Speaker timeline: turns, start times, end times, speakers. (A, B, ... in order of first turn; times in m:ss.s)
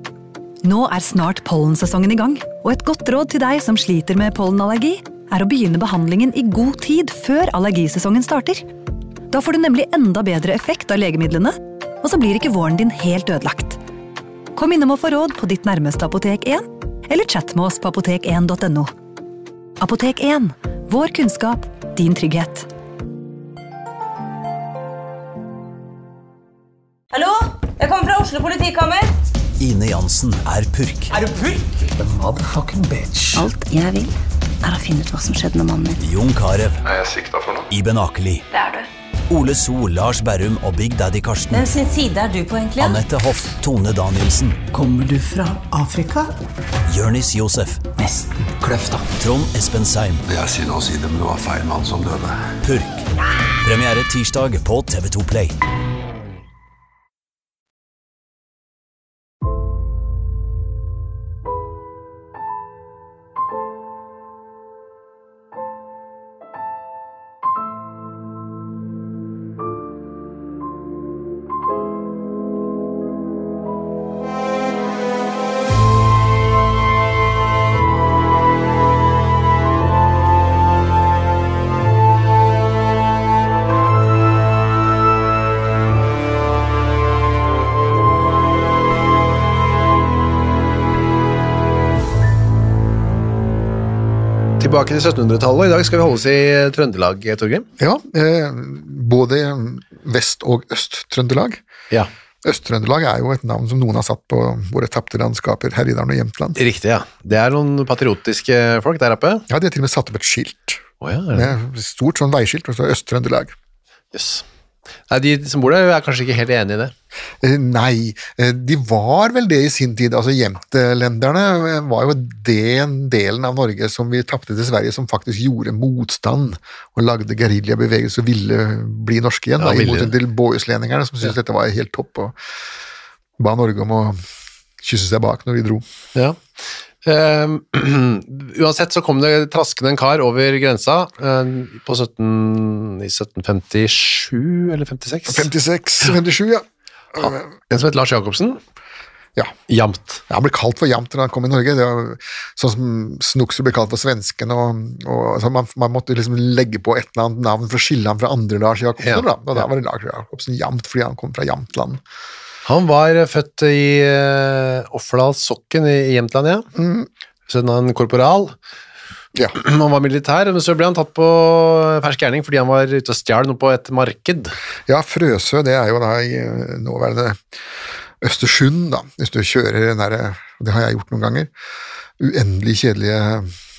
0:00.6-0:08.6 A
0:09.3-0:13.8 A
0:14.6-0:18.9 A
0:19.8-0:22.7 A
0:27.1-0:29.1 B
0:29.6-0:31.1 C
0:31.1-0:31.7 B
0:32.0-0:33.5 D
0:33.4-0:36.0 E
0:36.0-0:36.8 C
0:36.8-0:37.7 F
0:37.7-0:38.4 C
0:38.5-0:38.9 B
0:39.3-0:41.7 C
0:41.5-0:43.0 B
0:42.8-0:44.6 C
0:44.7-0:46.3 D
0:46.9-0:47.9 C
0:48.0-0:49.1 D
0:49.2-0:50.2 C
0:50.3-0:52.5 F
0:52.6-0:53.1 C
0:53.6-0:55.6 C
1:34.6-1:37.7 G
1:37.8-1:41.6 H
1:42.4-1:46.6 H
1:46.6-1:49.5 G
1:49.5-1:53.5 H
1:51.0-1:51.5 G
1:54.1-1:54.4 G
1:55.1-1:56.9 G
1:57.4-2:12.4 H
2:09.6-2:10.2 G
2:13.4-2:14.2 H
2:14.8-2:15.8 H
2:17.0-2:25.5 G
2:25.3-2:27.5 H
2:27.7-2:28.6 G
2:29.7-2:30.2 G
2:30.3-2:42.0 H
2:39.0-2:39.7 G
2:42.6-2:46.7 G
2:46.8-2:47.1 H
2:47.5-2:48.6 G
2:49.6-2:54.5 G
2:54.9-2:57.4 H
2:58.2-3:01.5 H
3:02.2-3:03.5 H